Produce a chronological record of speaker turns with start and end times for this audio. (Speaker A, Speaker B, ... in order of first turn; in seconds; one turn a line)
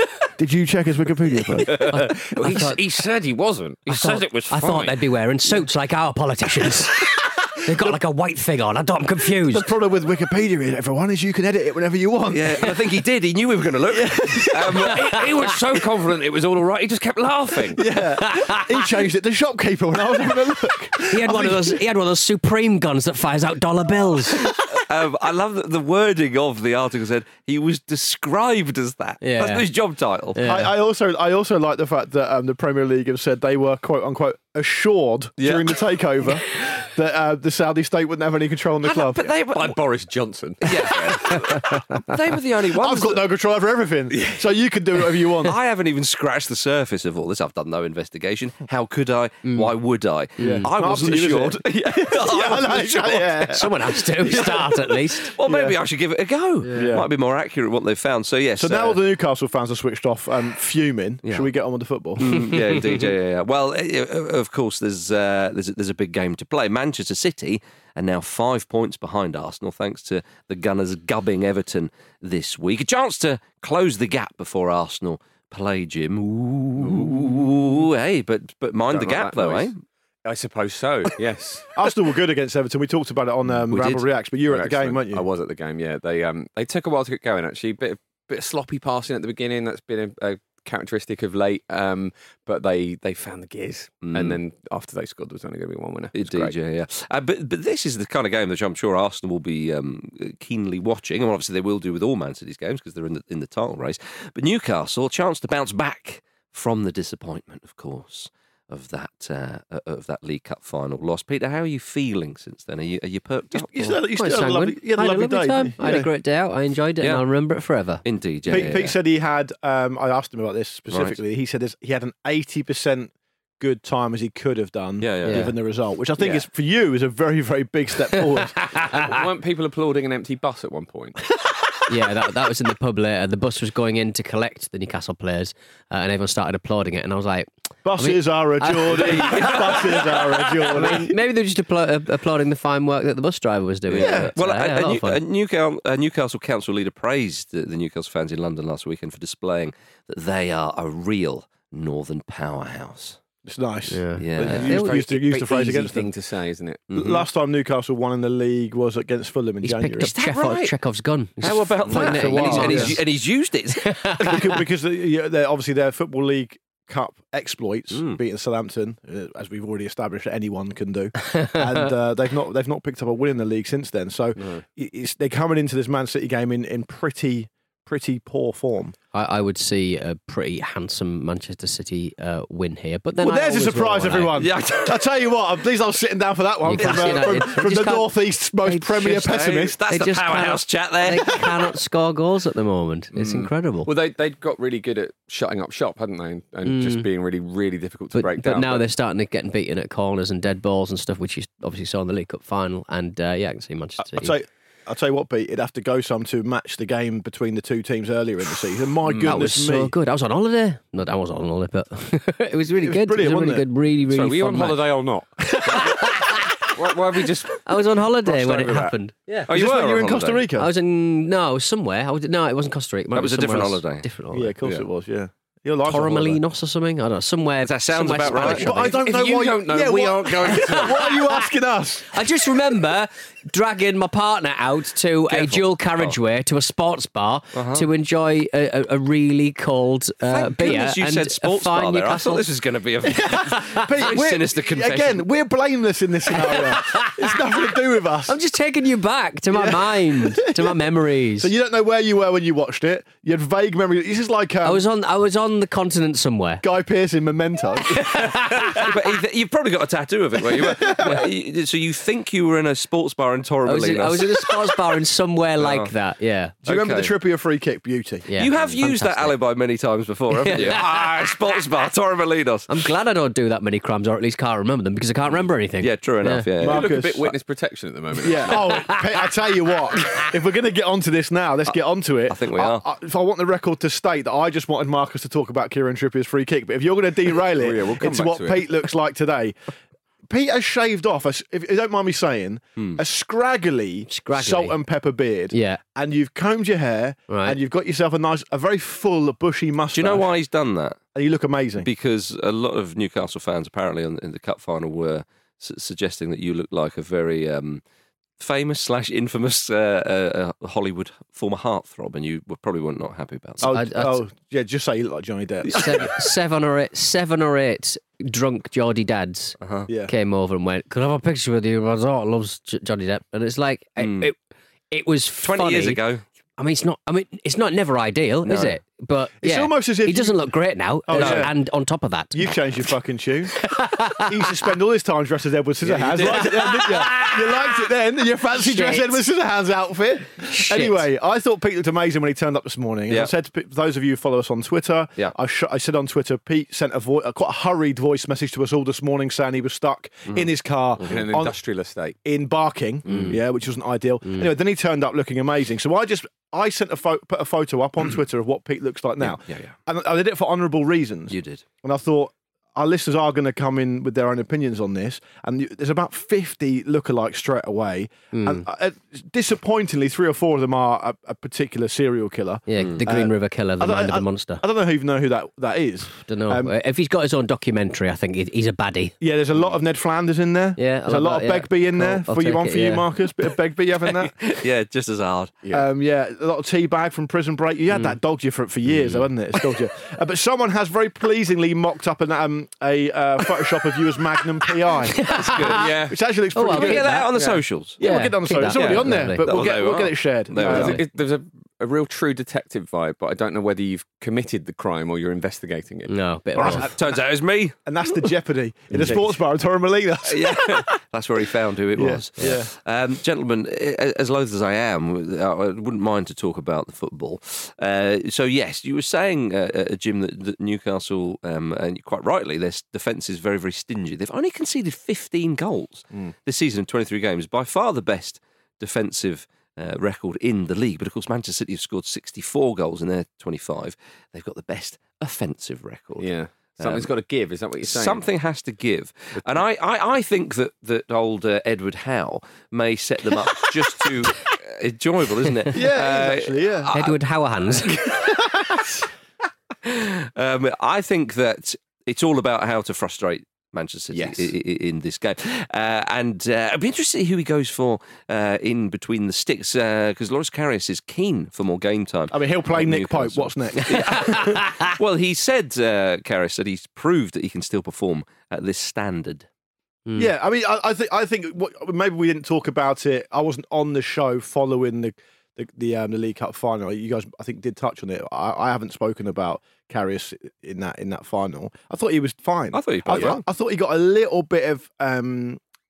Speaker A: 0.4-1.9
Speaker B: 1.6-5.0
Speaker C: 1.8-2.8
Speaker C: 3.9-9.7
Speaker A: 9.5-12.7
Speaker D: 12.3-15.3
Speaker A: 13.9-14.9
Speaker B: 14.9-17.8
Speaker A: 17.7-21.8
Speaker C: 21.1-24.5
Speaker D: 24.4-30.4
Speaker C: 29.2-29.7
Speaker C: 30.3-30.7
Speaker A: 30.4-39.3
Speaker D: 38.8-39.8
Speaker B: 39.4-41.3
Speaker D: 40.6-43.2
Speaker A: 42.7-45.6
Speaker D: 45.4-53.5
Speaker C: 50.4-50.7
Speaker A: 50.4-54.7
Speaker C: 53.5-55.3
Speaker D: 54.2-59.0
Speaker A: 55.4-55.8
Speaker A: 56.7-57.1
Speaker A: 58.6-62.3
Speaker D: 61.2-61.5
Speaker D: 62.2-79.8
Speaker B: 76.8-77.7
Speaker B: 78.9-79.7
Speaker B: 80.2-81.7
Speaker A: 81.7-85.2
Speaker D: 83.7-84.0
Speaker B: 84.5-96.5
Speaker D: 94.0-94.4
Speaker D: 96.1-113.7
Speaker A: 113.5-116.1
Speaker C: 113.8-118.0
Speaker D: 118.0-119.0
Speaker A: 118.5-128.7
Speaker D: 120.9-121.2
Speaker D: 125.0-125.5
Speaker C: 125.2-125.5
Speaker B: 126.2-126.4
Speaker B: 128.9-131.2
Speaker C: 131.9-139.8
Speaker A: 137.8-141.1
Speaker D: 139.3-139.7
Speaker C: 140.7-145.2
Speaker D: 143.9-153.2
Speaker A: 144.0-144.3
Speaker A: 153.4-156.1
Speaker C: 153.9-155.0
Speaker D: 154.2-154.8
Speaker B: 154.6-156.9
Speaker D: 156.9-157.2
Speaker A: 156.9-160.1
Speaker C: 159.6-163.0
Speaker D: 160.0-160.7
Speaker D: 161.4-164.4
Speaker A: 161.9-163.0
Speaker C: 163.8-164.4
Speaker A: 164.2-178.9
Speaker D: 167.9-168.2
Speaker C: 179.1-184.4
Speaker A: 183.2-189.8
Speaker D: 184.3-185.0
Speaker C: 186.6-188.8
Speaker D: 186.8-187.5
Speaker D: 188.9-191.4
Speaker C: 189.9-193.9
Speaker B: 193.1-198.8
Speaker C: 196.6-197.1
Speaker C: 198.1-204.3
Speaker A: 204.0-209.9
Speaker C: 209.1-214.8
Speaker A: 212.7-213.6
Speaker B: 214.1-215.9
Speaker C: 215.6-216.5
Speaker B: 216.7-217.6
Speaker C: 217.6-219.4
Speaker B: 218.2-219.0
Speaker D: 219.5-220.5
Speaker A: 219.5-220.7
Speaker C: 220.6-224.5
Speaker D: 223.1-224.1
Speaker A: 224.3-226.4
Speaker C: 225.8-229.0
Speaker D: 227.6-228.6
Speaker A: 228.4-232.2
Speaker B: 228.8-231.2
Speaker C: 232.1-242.4
Speaker B: 235.3-235.6
Speaker D: 237.5-237.9
Speaker D: 240.3-245.3
Speaker A: 243.1-248.3
Speaker C: 243.4-243.8
Speaker C: 246.6-247.2
Speaker C: 248.3-251.5
Speaker A: 249.5-250.8
Speaker A: 251.4-254.8
Speaker C: 254.6-256.6
Speaker A: 256.6-258.0
Speaker C: 257.9-258.9
Speaker D: 258.7-264.7
Speaker A: 260.5-261.2
Speaker C: 263.6-266.6
Speaker D: 265.6-265.9
Speaker A: 266.6-268.3
Speaker D: 266.6-267.1
Speaker C: 268.3-269.3
Speaker D: 268.4-272.7
Speaker C: 270.3-270.9
Speaker C: 272.7-276.5
Speaker D: 275.8-276.9
Speaker B: 276.6-278.8
Speaker A: 276.6-277.4
Speaker A: 278.2-289.6
Speaker C: 278.5-279.0
Speaker D: 282.3-282.8
Speaker B: 287.5-288.7
Speaker A: 290.3-300.3
Speaker C: 294.1-294.8
Speaker C: 295.5-295.8
Speaker C: 297.3-297.6
Speaker D: 299.9-301.0
Speaker A: 301.1-301.9
Speaker D: 301.8-307.8
Speaker D: 308.4-313.7
Speaker A: 313.6-316.1
Speaker C: 313.6-314.2
Speaker C: 315.7-319.6
Speaker D: 319.6-319.9
Speaker A: 319.9-320.1
Speaker C: 320.1-324.4
Speaker D: 324.0-324.3
Speaker C: 324.9-326.0
Speaker D: 325.4-326.2
Speaker C: 326.6-332.6
Speaker D: 328.5-328.7
Speaker A: 329.4-330.4
Speaker A: 331.1-331.5
Speaker D: 331.1-331.5
Speaker A: 332.3-351.6
Speaker C: 333.6-334.3
Speaker D: 335.9-337.0
Speaker C: 336.2-337.6
Speaker C: 338.5-339.2
Speaker C: 340.4-341.1
Speaker B: 351.0-352.2
Speaker A: 352.2-376.7
Speaker C: 353.1-353.4
Speaker D: 359.2-359.7
Speaker D: 361.3-361.6
Speaker C: 368.3-368.6
Speaker C: 372.7-374.6
Speaker C: 376.2-379.1
Speaker A: 379.2-384.3
Speaker C: 380.8-383.0
Speaker D: 384.1-385.5
Speaker A: 385.7-397.3
Speaker C: 388.9-389.3
Speaker C: 395.1-395.7
Speaker D: 395.3-395.8
Speaker B: 395.7-396.2
Speaker C: 396.5-397.2
Speaker D: 396.7-398.0
Speaker B: 397.3-397.6
Speaker A: 398.0-401.0
Speaker C: 398.0-399.6
Speaker D: 398.7-401.0
Speaker B: 400.6-406.1
Speaker C: 400.7-401.0
Speaker C: 406.1-406.9
Speaker A: 406.6-407.1
Speaker D: 406.7-407.8
Speaker A: 407.8-410.8
Speaker D: 410.2-437.1
Speaker A: 412.0-412.7
Speaker B: 436.2-438.2
Speaker D: 437.8-447.2
Speaker A: 445.7-446.9
Speaker C: 446.9-447.9
Speaker D: 447.8-448.4
Speaker D: 449.8-469.4
Speaker B: 454.1-454.5
Speaker A: 462.3-464.5
Speaker C: 464.2-464.7
Speaker C: 470.1-470.3
Speaker A: 470.1-485.6
Speaker D: 482.7-483.4